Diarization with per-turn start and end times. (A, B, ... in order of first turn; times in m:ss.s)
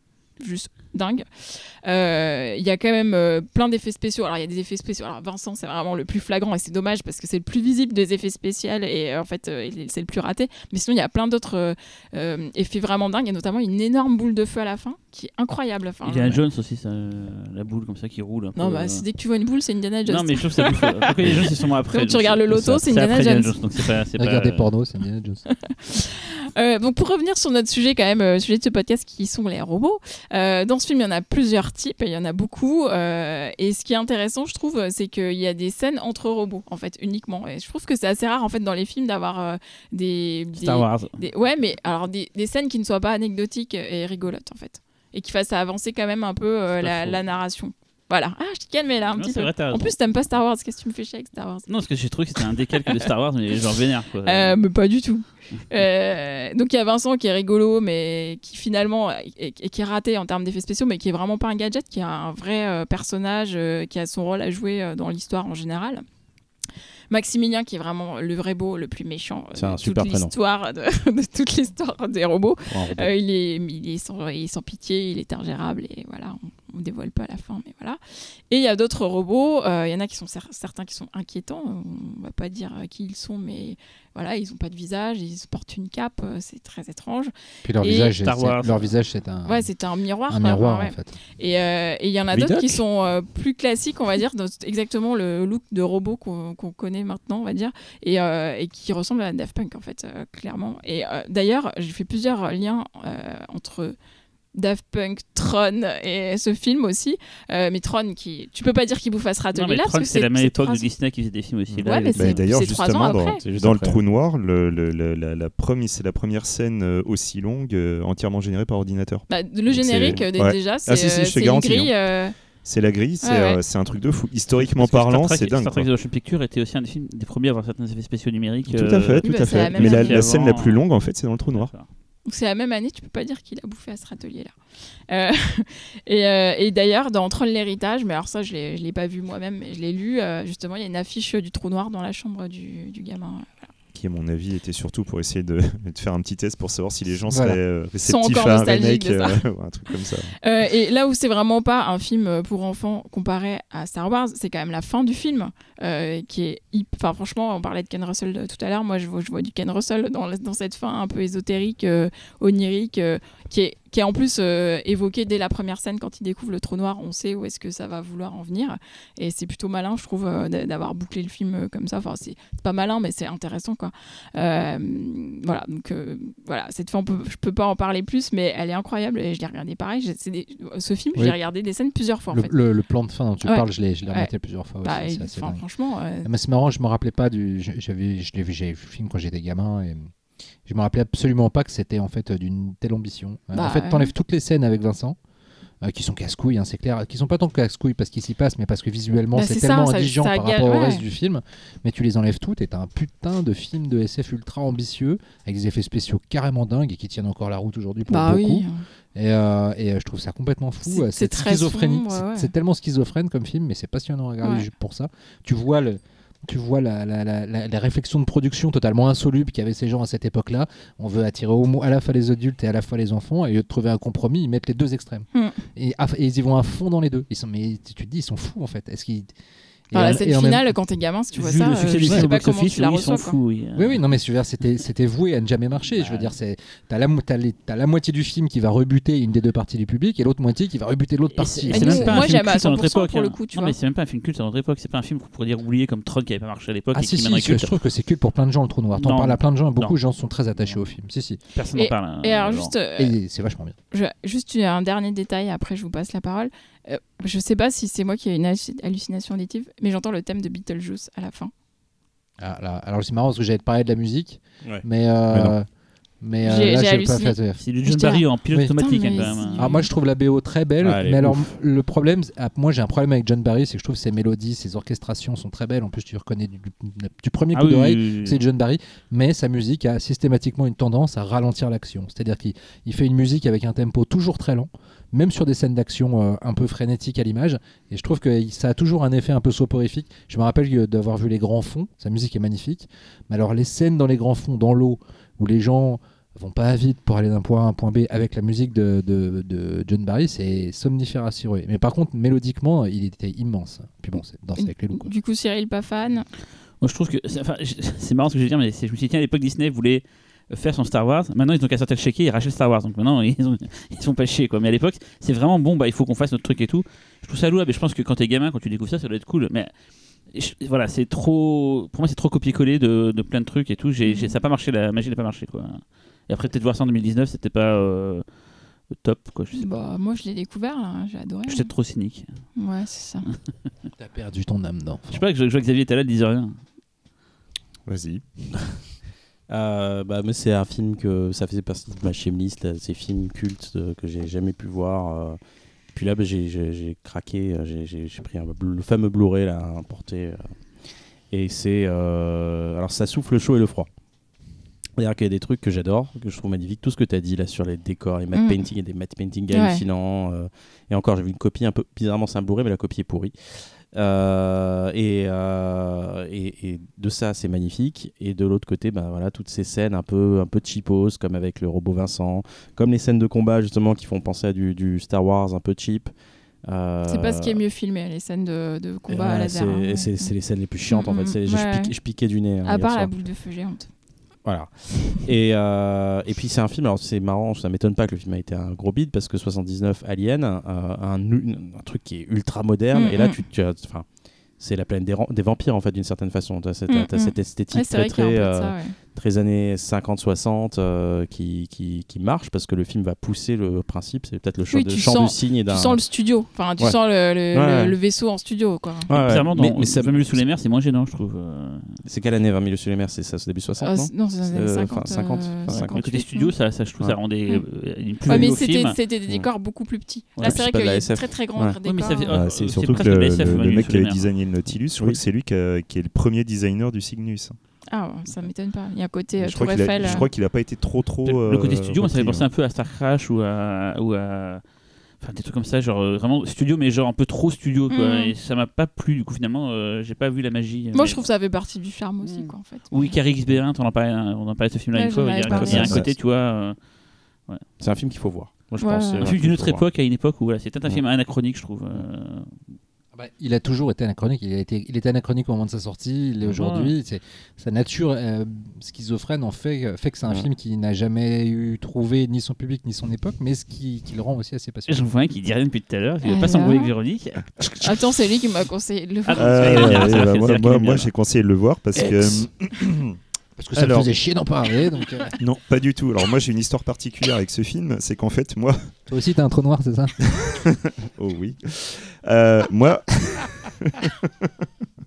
0:00.4-0:16.4 A
0:16.0-0:19.0 B
0:18.6-0:23.9 A
0:20.1-0:24.6 B
0:24.2-0:25.4 C
0:25.5-0:51.7 A
0:40.6-0:41.2 B
0:46.8-0:47.2 B
0:49.1-0:49.9 B
0:51.7-0:54.6 B
0:52.5-0:53.1 A
0:54.2-1:06.0 A
1:07.1-1:18.0 A
1:09.5-1:10.3 D
1:12.7-1:13.1 D
1:18.5-1:28.1 A
1:27.6-1:29.7 C
1:28.2-1:28.9 B
1:29.4-1:44.0 A
1:30.3-1:31.1 C
1:32.3-1:32.8 D
1:44.5-1:50.9 A
1:49.5-1:52.5 B
1:51.7-1:52.3 D
1:51.8-1:53.4 A
1:52.2-1:59.2 E
1:53.4-1:54.0 D
1:59.3-2:02.3 A
1:59.8-2:01.9 E
1:59.8-2:00.3 D
2:02.6-2:05.9 E
2:03.2-2:03.6 A
2:04.5-2:10.8 B
2:08.7-2:11.7 E
2:09.2-2:10.3 A
2:11.5-2:11.8 B
2:12.2-2:14.5 A
2:15.1-2:23.7 A
2:23.9-2:30.3 E
2:27.3-2:27.6 C
2:28.0-2:29.4 A
2:30.4-3:02.5 A
3:02.3-3:05.6 C
3:03.4-3:04.3 A
3:04.8-3:06.3 A
3:06.2-3:10.1 C
3:10.6-3:15.2 C
3:13.5-3:14.1 A
3:15.8-3:49.3 C
3:19.3-3:21.0 A
3:28.1-3:28.8 A
3:30.8-3:32.5 A
3:34.4-3:34.7 A
3:45.3-3:45.6 A
3:49.9-3:50.6 C
3:49.9-3:53.4 A
3:51.3-3:54.0 B
3:53.8-4:02.3 C
3:56.0-3:56.3 B
4:01.4-4:07.7 B
4:01.7-4:03.8 A
4:06.9-4:11.4 C
4:08.9-4:09.9 B
4:11.5-4:12.7 B
4:11.7-4:13.2 A
4:13.0-4:13.7 C
4:13.9-4:21.5 A
4:22.4-4:25.7 C
4:24.6-4:25.5 D
4:26.2-4:27.6 C
4:26.4-4:28.2 A
4:27.6-4:29.8 B
4:28.5-5:05.1 C
4:28.8-4:29.9 A
4:30.8-4:31.5 D
4:37.5-4:38.4 B
5:04.6-5:06.2 A
5:06.8-5:19.7 B
5:20.3-5:28.2 B
5:24.0-5:24.3 A
5:28.9-5:29.7 B
5:29.6-5:31.7 A
5:31.5-5:32.3 B
5:32.6-5:33.3 A
5:34.0-5:35.2 C
5:35.1-5:36.6 B
5:37.8-5:38.2 E
5:39.5-5:45.4 D
5:45.9-5:50.5 D
5:51.3-5:53.9 D
5:55.0-6:16.1 D
5:58.3-5:58.6 A
5:59.5-5:59.8 A
6:16.6-6:17.6 D
6:17.1-6:20.3 A
6:19.1-6:23.1 D
6:20.9-6:22.0 A
6:22.6-6:23.9 A
6:24.4-6:34.1 D
6:32.9-6:33.4 A
6:34.6-6:46.0 D
6:36.9-6:38.9 A
6:44.7-6:49.1 A
6:47.5-6:48.0 D
6:49.1-6:50.4 D
6:49.1-6:52.0 B
6:52.0-6:56.0 D
6:53.8-6:56.5 A
6:55.8-6:59.0 B
6:58.2-7:02.3 A
6:58.3-6:58.5 D
7:00.4-7:01.8 D
7:01.8-7:04.3 B
7:02.3-7:07.6 E
7:07.9-7:10.3 A
7:09.4-7:12.5 E
7:11.2-7:14.6 B
7:15.2-7:21.3 B
7:17.9-7:18.3 A
7:20.9-7:23.2 A
7:22.2-7:26.8 B
7:24.9-7:26.0 A
7:25.4-7:26.1 D
7:27.8-7:29.8 D
7:28.8-7:29.3 A
7:29.2-7:32.5 B
7:33.1-7:45.1 C
7:36.4-7:36.9 B
7:44.9-7:48.0 B
7:46.2-7:46.9 A
7:47.8-7:50.2 A
7:49.3-7:51.1 B
7:49.3-7:53.2 E
7:53.6-7:55.3 C
7:53.7-7:54.1 E
7:55.4-7:58.9 E
7:59.1-8:00.2 C
8:00.2-8:04.7 E